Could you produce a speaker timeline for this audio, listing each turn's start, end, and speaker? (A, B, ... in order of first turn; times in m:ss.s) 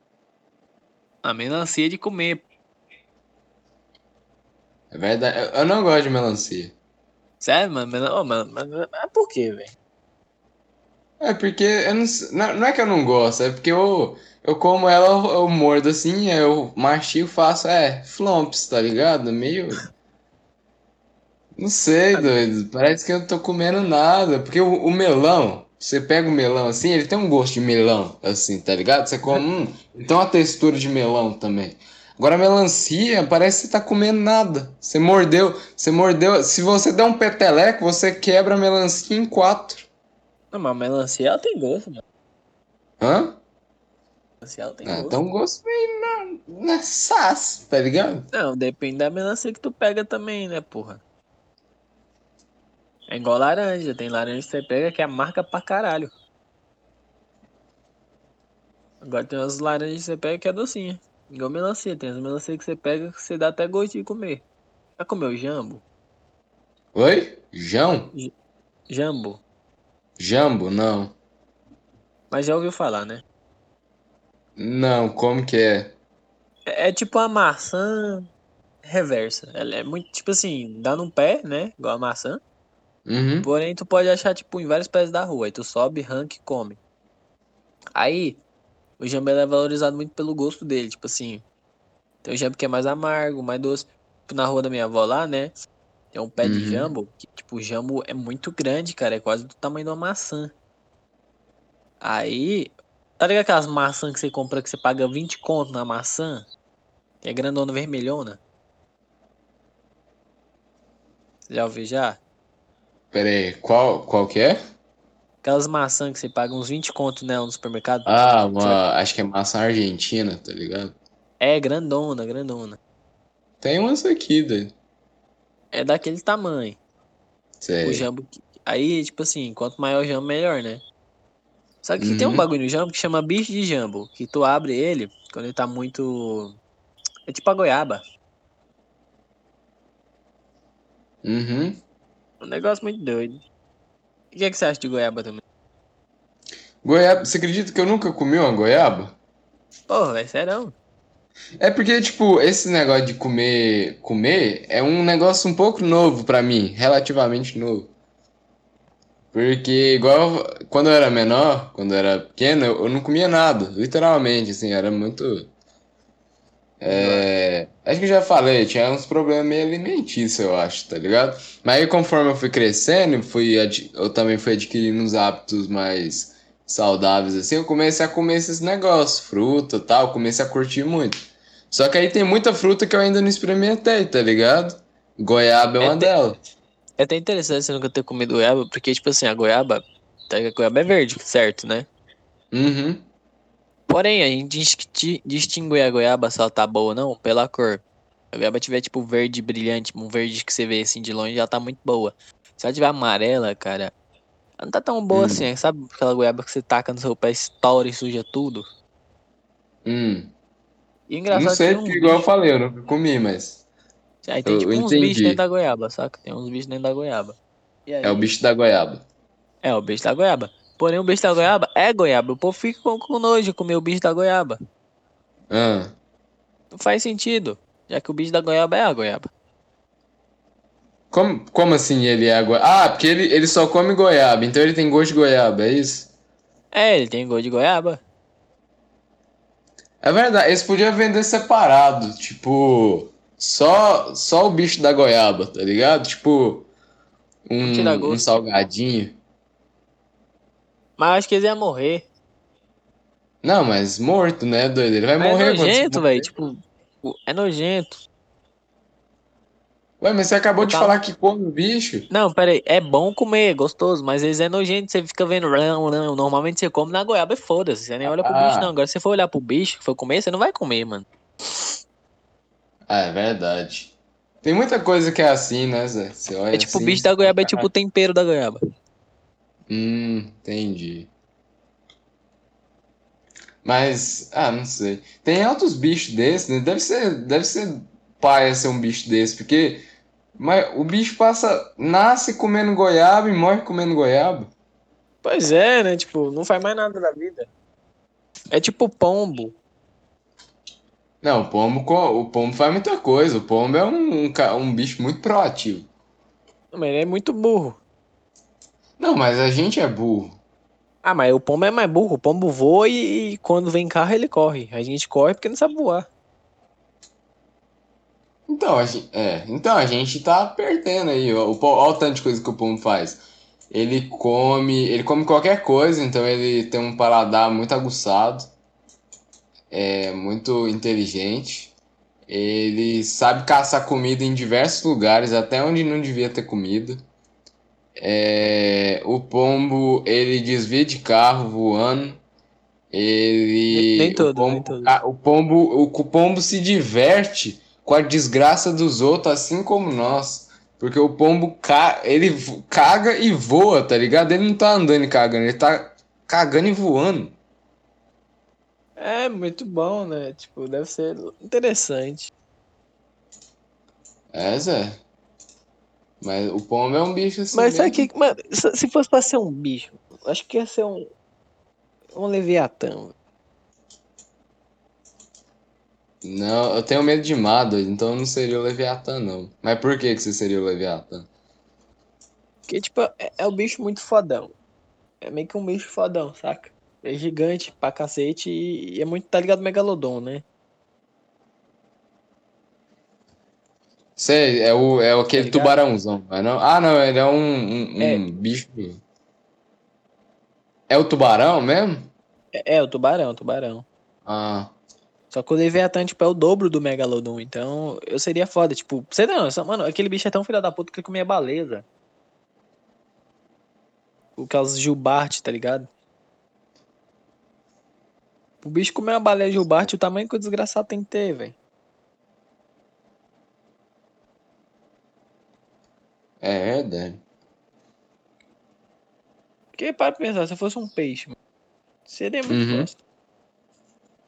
0:01.2-0:02.4 A
0:04.9-0:06.8 B
0:07.4-0:09.8 A
0:11.2-0:19.8 B
0:21.6-0:39.9 B
0:40.5-0:42.0 A
0:43.0-0:43.4 B
0:44.4-0:45.2 A
0:44.8-0:48.3 B
0:48.3-0:51.0 A
0:53.1-0:56.1 A
0:59.0-1:04.4 A
1:05.0-1:05.8 A
1:06.9-1:08.1 B
1:08.9-1:09.4 A
1:10.2-1:11.2 B
1:12.3-1:13.2 A
1:14.6-1:15.9 B
1:16.7-1:18.3 A
1:18.8-1:22.4 A
1:23.1-1:23.5 B
1:23.4-1:26.8 A
1:28.0-1:28.4 A
1:29.0-1:31.4 A
1:32.2-1:35.6 A
1:36.1-1:40.5 A
1:36.4-1:36.9 B
1:42.0-1:46.5 A
1:47.2-1:48.4 A
1:51.5-1:52.2 A
1:53.1-1:54.6 B
1:55.4-1:58.8 A
1:58.1-2:00.9 B
2:01.4-2:02.8 A
2:03.6-2:04.7 B
2:05.7-2:06.8 A
2:07.6-2:08.1 B
2:07.8-2:10.8 A
2:11.8-2:16.6 A
2:12.0-2:12.5 B
2:17.3-2:18.0 A
2:21.2-2:21.8 B
2:22.4-2:23.4 A
2:24.3-2:25.4 A
2:26.8-2:29.2 B
2:29.9-2:30.8 A
2:31.6-2:37.9 B
2:39.3-2:45.5 B
2:46.8-3:01.2 B
2:46.8-2:47.3 A
3:01.7-3:06.4 B
3:05.8-3:06.1 A
3:07.0-3:11.9 A
3:12.5-3:13.0 B
3:13.9-3:23.9 A
3:24.6-3:28.7 A
3:25.1-3:25.5 B
3:29.8-3:30.3 B
3:31.1-3:32.3 A
3:31.3-3:33.6 B
3:34.2-3:38.3 A
3:34.5-3:35.4 B
3:38.0-3:39.0 B
3:39.6-3:44.6 A
3:45.5-3:45.9 B
3:46.7-3:49.3 A
3:51.1-3:56.1 B
3:56.7-3:58.0 A
4:00.0-4:06.7 B
4:07.5-4:09.2 B
4:07.6-4:08.2 A
4:11.0-4:12.1 A
4:13.4-4:16.3 B
4:15.2-4:18.0 A
4:20.0-4:22.1 B
4:20.6-4:21.0 A
4:22.1-4:31.1 A
4:28.0-4:28.7 B
4:32.9-4:37.7 B
4:36.5-4:38.6 A
4:39.7-4:41.1 B
4:43.6-4:49.8 B
4:50.4-4:54.5 B
4:55.2-4:57.5 A
4:58.5-4:59.6 A
5:01.2-5:05.9 B
5:06.7-5:07.8 A
5:09.0-5:10.4 B
5:11.0-5:16.1 A
5:18.5-5:28.5 B
5:29.7-5:31.7 B
5:32.3-5:37.0 B
5:38.0-5:42.2 B
5:42.9-5:57.4 B
5:43.7-5:45.0 A
5:59.0-6:02.3 A
6:04.3-6:05.0 B
6:06.2-6:08.1 B
6:07.5-6:11.1 A
6:12.1-6:13.2 A
6:16.2-6:21.3 B
6:22.7-6:24.5 A
6:25.2-6:30.4 A
6:34.2-6:39.0 B
6:35.3-6:35.8 A
6:38.0-6:38.2 A
6:40.9-6:42.1 B
6:42.5-6:43.9 A
6:44.3-6:44.7 B
6:45.3-6:51.8 A
6:54.4-6:55.9 A
6:58.6-7:01.6 A
7:06.4-7:07.2 B
7:09.8-7:11.4 A
7:12.1-7:13.0 A
7:12.5-7:12.9 B